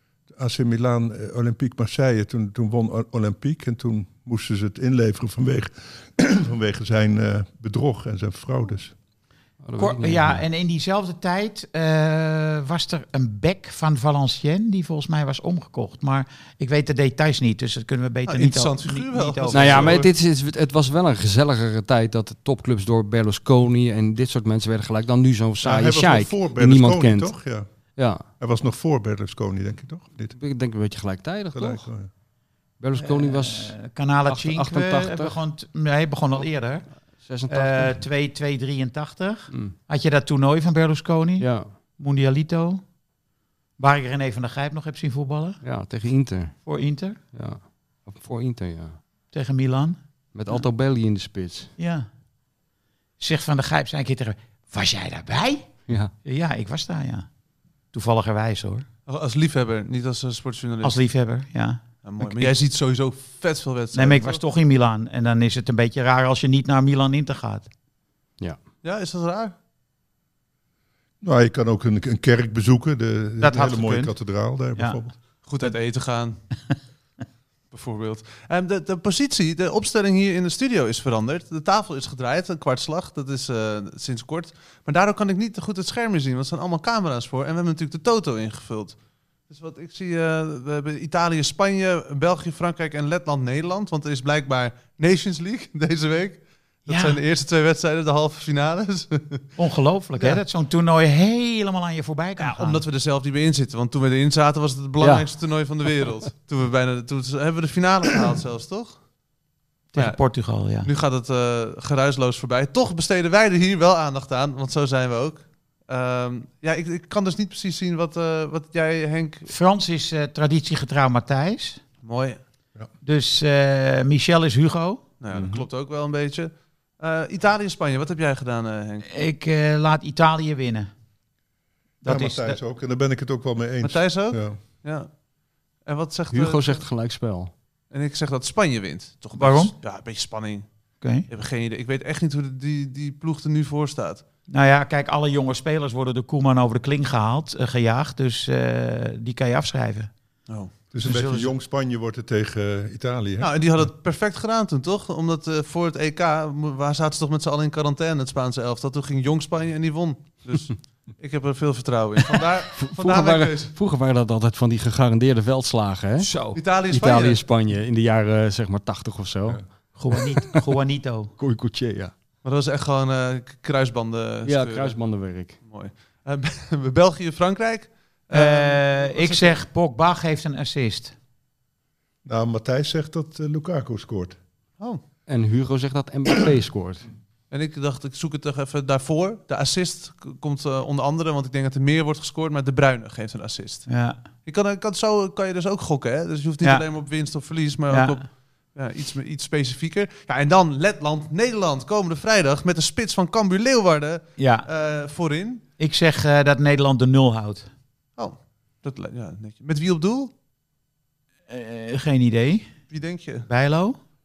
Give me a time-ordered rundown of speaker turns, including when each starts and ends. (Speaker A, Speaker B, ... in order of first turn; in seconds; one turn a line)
Speaker A: 0.3-8.9
Speaker B: 9.6-10.4
Speaker C: 9.8-20.1
Speaker D: 18.3-20.1
Speaker B: 19.5-27.3
Speaker A: 25.6-27.7
Speaker B: 28.0-28.2
Speaker A: 28.4-30.4
Speaker B: 30.4-31.9
Speaker A: 31.5-32.1
Speaker B: 32.8-35.4
Speaker C: 33.0-36.9
Speaker B: 37.2-38.0
Speaker C: 37.5-41.5
Speaker B: 41.4-41.7
Speaker C: 42.0-42.8
Speaker C: 43.8-45.6
Speaker B: 45.6-46.6
Speaker C: 46.7-47.2
Speaker B: 47.3-49.0
Speaker C: 49.3-50.0
Speaker B: 50.3-51.7
Speaker C: 51.8-52.1
Speaker C: 53.2-55.7
Speaker C: 56.2-57.3
Speaker C: 57.9-58.9
Speaker D: 59.1-61.0
Speaker C: 60.8-62.5
Speaker D: 62.0-64.4
Speaker C: 63.9-67.7
Speaker D: 68.8-69.5
Speaker A: 71.2-75.1
Speaker C: 73.4-74.1
Speaker D: 75.4-76.4
Speaker D: 77.7-89.0
Speaker D: 89.5-99.5
Speaker C: 96.9-97.2
Speaker C: 99.6-102.8
Speaker D: 102.4-109.0
Speaker B: 105.0-105.3
Speaker C: 109.9-110.9
Speaker D: 110.0-110.2
Speaker D: 110.8-119.5
Speaker C: 119.5-121.8
Speaker D: 122.0-122.4
Speaker C: 123.0-125.0
Speaker D: 125.2-129.1
Speaker A: 125.3-125.6
Speaker C: 129.1-130.9
Speaker C: 132.0-132.6
Speaker A: 132.0-134.6
Speaker D: 133.8-135.1
Speaker D: 135.8-136.8
Speaker B: 136.3-137.5
Speaker D: 137.9-140.7
Speaker C: 139.4-139.7
Speaker D: 141.3-144.2
Speaker C: 144.5-150.1
Speaker A: 150.9-153.5
Speaker C: 151.0-151.5
Speaker D: 153.4-163.7
Speaker B: 162.8-166.3
Speaker C: 166.2-166.6
Speaker D: 166.6-167.4
Speaker B: 166.9-169.6
Speaker C: 169.9-171.3
Speaker B: 171.4-172.1
Speaker D: 172.4-175.0
Speaker B: 174.5-175.6
Speaker D: 175.6-179.6
Speaker C: 178.3-181.1
Speaker A: 182.2-184.4
Speaker B: 185.3-187.1
Speaker D: 187.5-193.9
Speaker C: 193.9-194.2
Speaker D: 194.4-205.6
Speaker C: 197.9-198.2
Speaker C: 204.4-204.7
Speaker C: 205.8-207.7
Speaker D: 208.2-210.3
Speaker C: 211.5-212.7
Speaker D: 212.9-213.5
Speaker C: 213.5-214.0